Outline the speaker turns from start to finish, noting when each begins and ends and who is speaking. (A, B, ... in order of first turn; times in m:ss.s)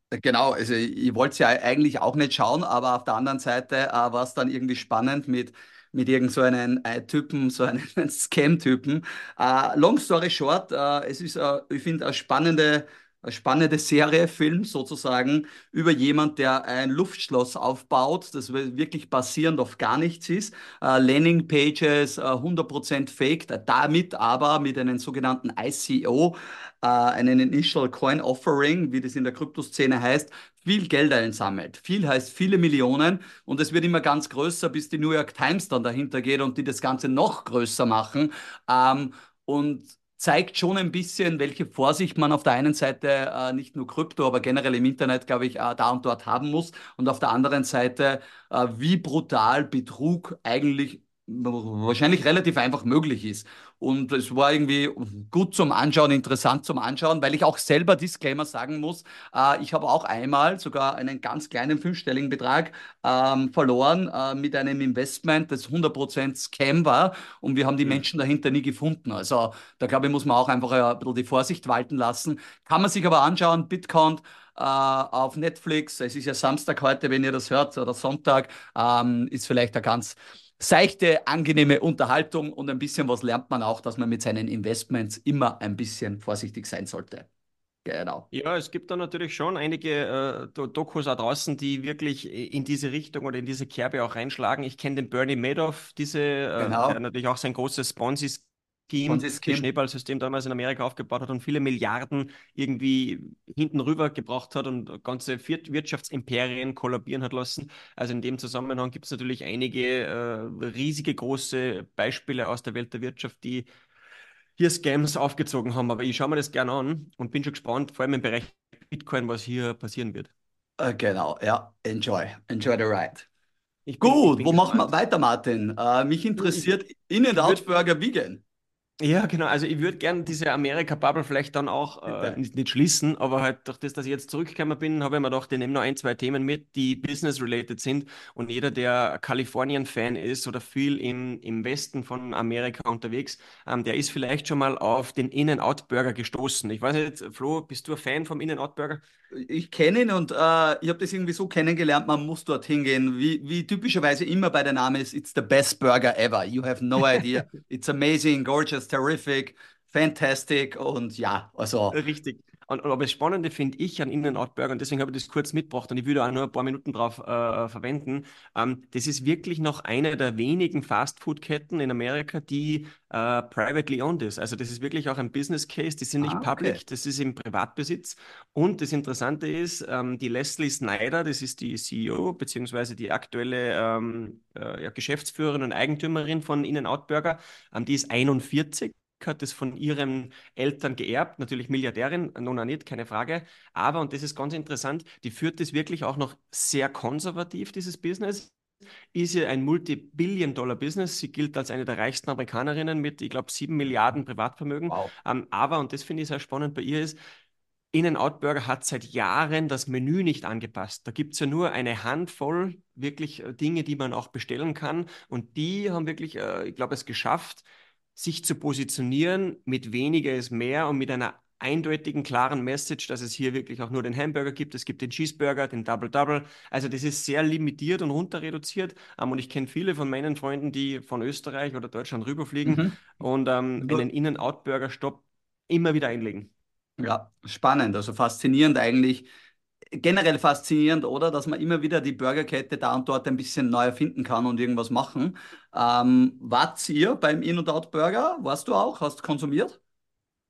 0:00.1-1:27.3 A
1:27.8-1:28.2 A
1:28.3-1:53.7 B
1:36.6-1:37.0 A
1:39.1-1:39.7 A
1:54.6-2:00.3 B
2:00.8-2:03.2 A
2:03.8-2:04.9 B
2:04.0-2:08.4 A
2:06.4-2:06.6 B
2:07.4-2:07.6 B
2:09.0-2:29.0 B
2:12.1-2:12.4 A
2:29.3-2:42.0 A
2:41.9-3:18.5 B
2:56.2-2:56.8 A
3:19.1-3:27.2 B
3:27.9-3:56.5 B
3:52.6-3:53.0 A
3:57.0-3:59.3 A
3:59.9-4:09.8 A